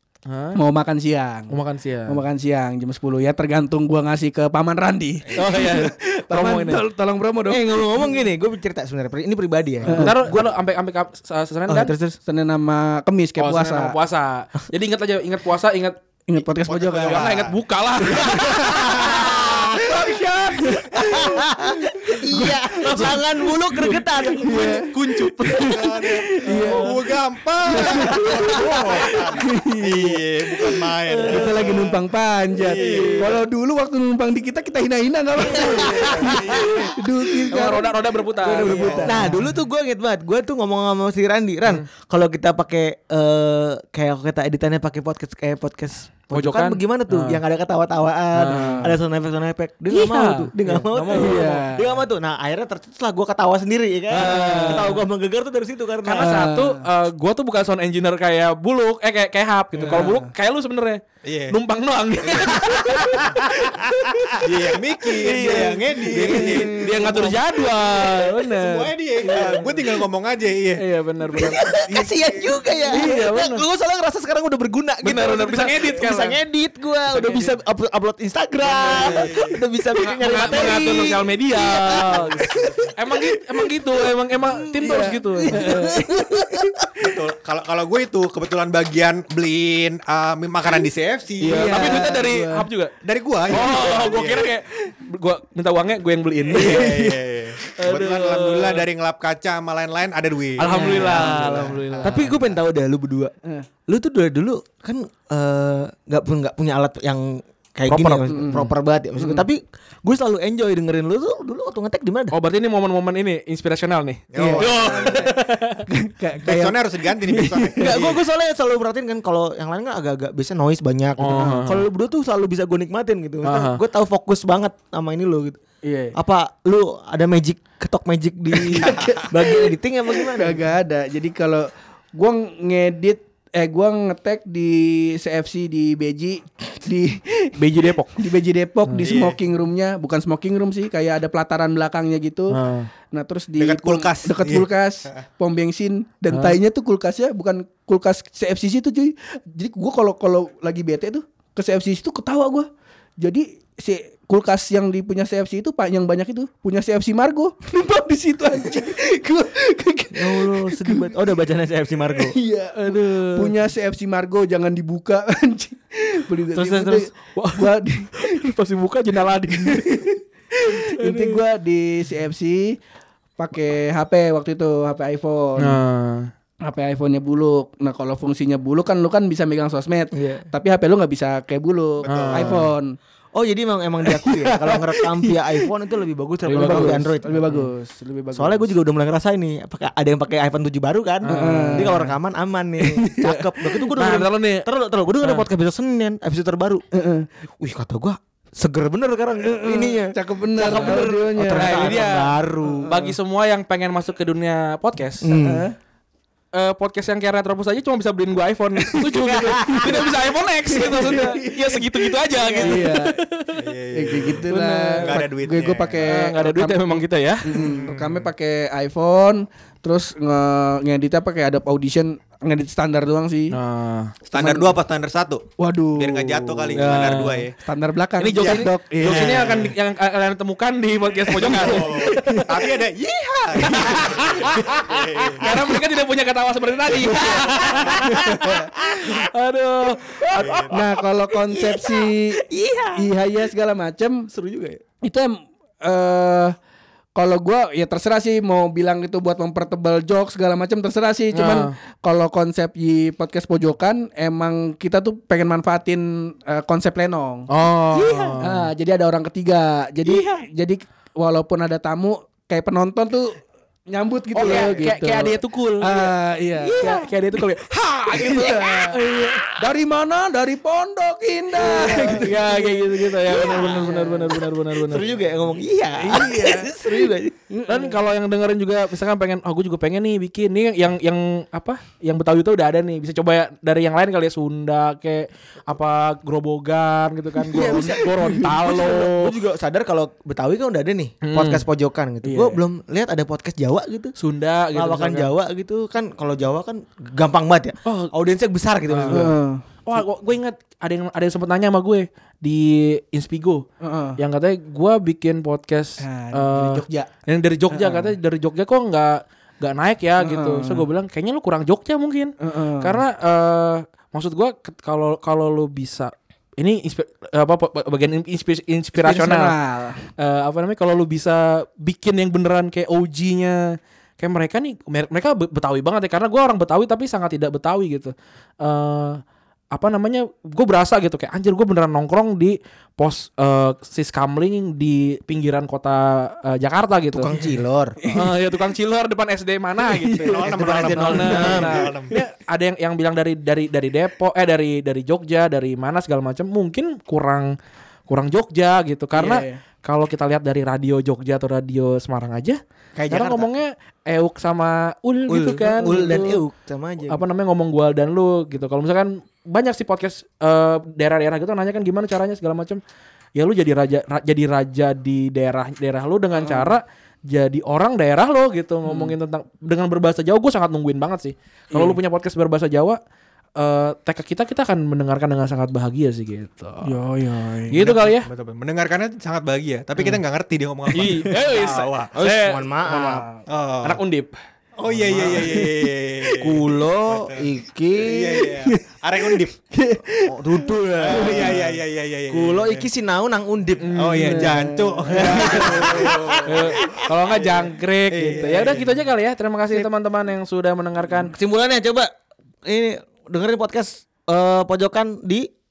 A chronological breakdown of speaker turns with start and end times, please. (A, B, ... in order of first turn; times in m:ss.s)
0:00.3-0:00.6 A
0:00.6-0:01.5 B
0:01.5-0:02.2 A
0:02.1-0:08.1 B
0:05.4-0:06.8 A
0:07.5-0:10.5 C
0:09.9-0:10.2 B
0:09.9-0:11.9 A
0:11.7-0:12.2 C
0:12.3-0:14.0 B
0:13.4-0:16.0 A
0:16.3-0:17.4 B
0:16.7-0:19.9 D
0:17.0-0:19.4 A
0:18.9-0:23.3 B
0:19.0-0:19.7 C
0:20.9-0:24.8 C
0:22.8-0:25.8 A
0:24.4-0:39.4 B
0:25.5-0:32.0 D
0:26.4-0:26.9 A
0:28.5-0:28.9 A
0:31.0-0:31.6 C
0:32.6-0:33.2 D
0:32.8-0:33.4 A
0:35.5-0:36.8 C
0:35.8-0:36.9 D
0:36.0-0:36.4 A
0:37.5-0:39.5 A
0:38.4-0:56.5 C
0:38.6-0:39.1 D
0:46.3-0:47.4 A
0:48.4-0:48.9 A
0:48.5-0:49.0 B
0:49.9-0:51.6 A
0:51.1-0:52.0 B
0:54.1-0:55.0 A
0:54.2-0:54.9 B
0:56.0-1:04.4 A
0:56.2-0:56.8 B
0:59.8-1:00.3 B
1:01.2-1:01.6 D
1:04.3-1:07.2 D
1:05.1-1:09.9 A
1:05.3-1:06.6 B
1:06.1-1:07.4 C
1:08.6-1:10.8 D
1:10.8-1:11.6 A
1:11.3-1:22.7 C
1:11.9-1:13.1 B
1:12.9-1:13.6 A
1:15.0-1:16.4 A
1:17.1-1:17.6 A
1:18.6-1:19.6 D
1:18.8-1:19.3 A
1:19.9-1:25.7 A
1:20.5-1:20.9 D
1:22.1-1:22.9 D
1:24.3-1:26.8 C
1:24.8-1:26.9 B
1:27.0-1:32.0 D
1:31.4-1:33.0 A
1:31.4-1:32.7 B
1:33.0-1:34.6 D
1:33.5-1:38.9 A
1:36.5-1:41.8 D
1:36.8-1:37.1 B
1:40.6-1:42.4 A
1:40.7-1:42.1 B
1:42.0-1:43.3 C
1:43.9-1:52.4 C
1:47.9-1:48.5 A
1:48.3-1:49.4 B
1:52.3-1:55.9 A
1:54.3-1:55.3 D
1:54.4-1:55.4 B
1:55.9-1:58.0 B
1:56.4-1:58.2 D
1:57.8-2:05.6 C
2:01.2-2:01.9 A
2:03.4-2:03.8 A
2:05.8-2:06.2 B
2:06.1-2:10.6 C
2:08.6-2:17.6 B
2:17.6-2:18.3 A
2:18.2-2:22.6 B
2:18.9-2:19.2 A
2:19.0-2:19.4 D
2:22.5-2:22.9 A
2:23.1-2:32.7 B
2:23.6-2:24.7 D
2:26.3-2:26.6 A
2:33.2-2:41.3 B
2:40.1-2:42.4 C
2:42.2-2:48.5 B
2:42.8-2:43.5 A
2:46.6-2:50.1 A
2:49.5-2:52.8 B
2:50.7-2:51.4 A
2:53.4-2:55.8 B
2:55.6-2:56.3 A
2:56.6-3:03.0 B
3:00.1-3:00.4 C
3:02.0-3:02.6 D
3:02.1-3:02.7 A
3:03.4-3:07.5 C
3:04.1-3:05.4 B
3:06.4-3:07.7 A
3:06.6-3:08.7 B
3:08.3-3:16.8 C
3:11.2-3:12.1 A
3:11.3-3:12.0 B
3:12.8-3:13.4 B
3:13.9-3:14.7 A
3:16.9-3:17.3 B
3:17.6-3:23.0 C
3:19.4-3:22.1 B
3:20.6-3:25.3 A
3:25.2-3:25.7 C
3:25.3-3:25.8 B
3:26.5-3:33.6 A
3:29.0-3:30.1 C
3:30.7-3:32.0 B
3:32.4-3:32.8 C
3:32.6-3:33.2 B
3:33.6-3:34.5 D
3:33.9-3:43.6 B
3:34.5-3:35.2 A
3:35.0-3:36.0 D
3:36.0-3:37.7 A
3:37.5-3:38.3 D
3:43.5-3:44.2 A
3:44.3-3:47.6 D
3:44.3-3:44.8 B
3:45.6-3:49.6 B
3:46.7-3:47.5 A
3:48.2-3:52.5 A
3:48.4-3:49.7 D
3:51.4-3:55.5 D
3:51.4-3:52.8 B
3:53.7-3:54.0 B
3:53.7-4:00.7 A
3:57.0-3:58.1 C
3:58.0-3:58.9 B
3:58.8-3:59.1 C
4:00.4-4:00.8 D
4:00.7-4:02.4 B
4:01.4-4:03.1 C
4:03.0-4:04.3 B
4:04.3-4:04.8 C
4:05.0-4:06.6 B
4:07.2-4:17.5 B
4:11.3-4:11.7 A
4:17.5-4:18.7 A
4:18.0-4:18.4 C
4:18.4-4:27.0 B
4:20.1-4:20.4 C
4:24.3-4:26.1 A
4:26.6-4:27.1 C
4:26.8-4:29.2 A
4:28.1-4:34.4 B
4:31.6-4:35.2 A
4:31.7-4:32.3 C
4:33.3-4:34.0 C
4:34.7-4:37.4 C
4:36.0-4:38.0 B
4:37.7-4:49.3 A
4:47.5-4:54.1 C
4:47.7-4:48.3 B
4:51.2-4:51.6 A
4:52.2-4:52.6 B
4:54.2-4:55.3 A
4:54.7-4:59.4 C
4:57.8-4:58.1 A
4:58.9-4:59.3 A
4:59.1-4:59.6 B
4:59.9-5:03.7 A
5:03.8-5:04.2 B
5:04.2-5:19.5 A
5:06.0-5:07.1 B
5:07.7-5:08.2 B
5:10.2-5:10.9 B
5:12.4-5:13.0 B
5:19.0-5:20.0 B
5:20.2-5:29.2 A
5:29.7-5:37.4 A
5:37.1-5:38.0 C
5:38.0-5:38.3 B
5:38.1-5:47.5 A
5:39.8-5:42.2 B
5:40.2-5:42.1 D
5:40.4-5:41.8 C
5:48.1-5:56.4 A
5:49.2-5:49.6 B
5:53.0-5:53.5 C
5:55.3-5:57.2 C
5:57.1-6:02.8 A
6:03.4-6:13.0 A
6:06.4-6:06.7 B
6:08.8-6:09.1 B
6:11.7-6:12.0 B
6:13.6-6:16.9 A
6:16.8-6:17.8 B
6:17.7-6:18.3 A
6:17.8-6:22.2 D
6:20.9-6:23.2 A
6:22.1-6:23.3 C
6:23.0-6:23.3 B
6:23.5-6:24.0 D
6:23.8-6:24.3 A
6:24.8-6:27.4 D
6:24.9-6:25.6 C
6:25.1-6:25.4 A
6:26.3-6:28.5 C
6:28.0-6:29.5 D
6:28.4-6:31.6 B
6:30.2-6:34.0 C
6:31.0-6:32.9 D
6:33.8-6:34.5 A
6:33.9-6:39.0 D
6:34.2-6:36.1 B
6:35.1-6:37.0 C
6:35.3-6:35.8 A
6:36.4-6:41.3 A
6:41.3-6:42.1 C
6:42.6-6:45.5 C